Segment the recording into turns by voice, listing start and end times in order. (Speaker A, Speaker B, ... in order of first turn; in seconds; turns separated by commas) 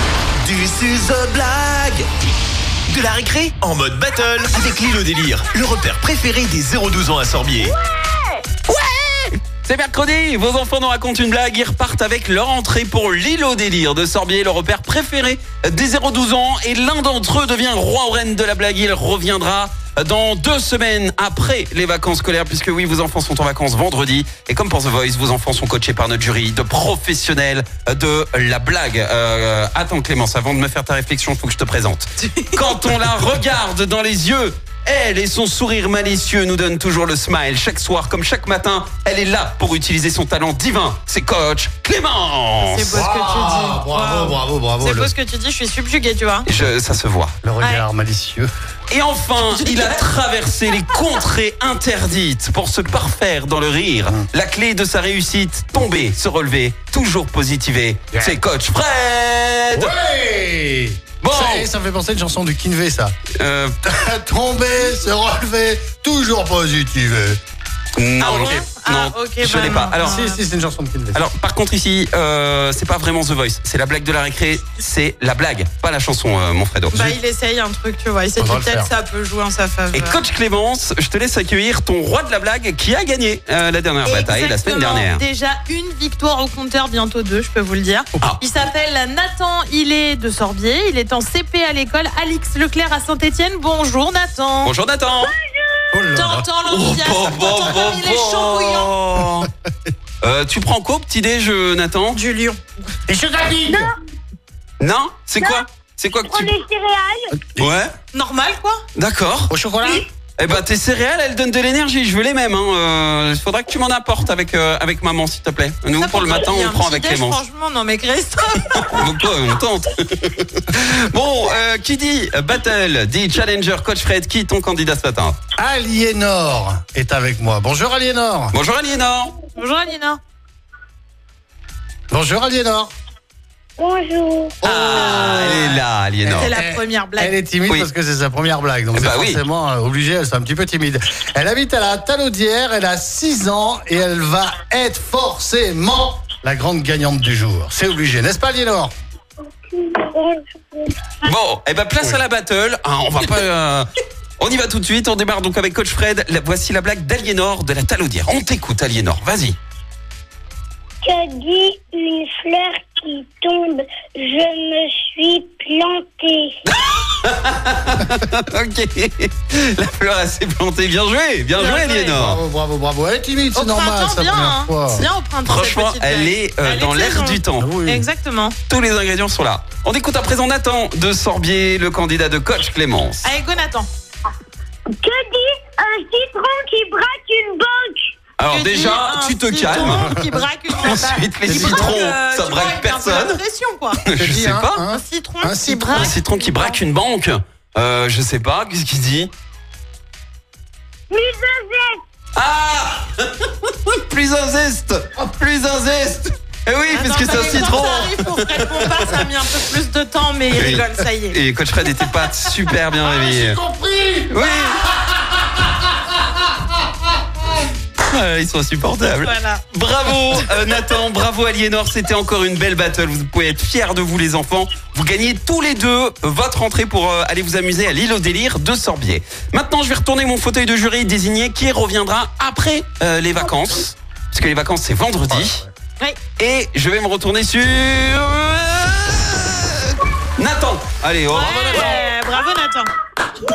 Speaker A: 0.4-2.0, Speaker A: 2.9-7.7, Speaker B: 8.7-43.0, Speaker C: 32.2-33.1, Speaker C: 42.6-46.5, Speaker D: 42.9-45.1, Speaker B: 46.5-47.4, Speaker D: 47.4-48.5, Speaker C: 47.6-47.9, Speaker B: 48.9-59.9, Speaker C: 49.4-50.0, Speaker D: 59.7-63.1, Speaker B: 61.2-61.7, Speaker B: 63.4-63.8, Speaker D: 63.8-67.4, Speaker B: 68.0-70.2, Speaker C: 68.2-70.4, Speaker D: 70.0-71.2, Speaker B: 71.1-77.2, Speaker C: 77.0-80.2, Speaker D: 78.4-78.9, Speaker B: 79.9-85.2, Speaker C: 84.0-94.7, Speaker B: 94.6-95.3, Speaker E: 95.1-96.1, Speaker D: 95.9-96.5, Speaker C: 96.1-98.9, Speaker B: 96.7-99.5, Speaker B: 100.2-102.2, Speaker C: 102.1-102.6, Speaker D: 103.1-103.9, Speaker B: 104.8-106.5, Speaker E: 106.2-107.3, Speaker B: 107.6-107.9, Speaker C: 108.1-108.8, Speaker B: 109.0-109.5, Speaker D: 109.5-110.0, Speaker B: 110.4-117.4, Speaker C: 116.0-119.0, Speaker B: 118.7-125.3, Speaker D: 125.6-128.6, Speaker B: 128.5-129.4, Speaker C: 129.5-130.2, Speaker D: 132.1-132.9, Speaker E: 133.8-134.6, Speaker D: 134.6-148.9, Speaker B: 134.6-136.5, Speaker C: 134.9-135.8, Speaker C: 136.3-137.4, Speaker B: 138.9-139.4, Speaker E: 149.8-150.9, Speaker B: 151.2-153.8, Speaker B: 154.4-159.6, Speaker E: 161.0-166.5, Speaker B: 166.6-172.4, Speaker C: 171.6-172.1, Speaker D: 172.1-175.1, Speaker C: 173.6-178.6, Speaker B: 175.4-177.8, Speaker D: 177.6-178.1, Speaker B: 178.7-183.3, Speaker C: 183.2-183.9, Speaker E: 184.9-188.0, Speaker B: 188.4-190.2, Speaker C: 188.5-194.1, Speaker D: 189.8-190.2, Speaker B: 190.8-193.4, Speaker B: 194.0-194.8, Speaker D: 194.1-196.2, Speaker C: 194.8-196.8, Speaker B: 195.9-199.3, Speaker E: 201.1-201.9, Speaker B: 202.3-209.2, Speaker C: 206.9-212.5, Speaker B: 210.5-213.6, Speaker D: 213.0-214.5, Speaker B: 214.3-214.8, Speaker B: 218.1-235.6, Speaker C: 219.1-219.6, Speaker D: 235.3-235.7, Speaker B: 236.3-242.0, Speaker C: 241.3-242.9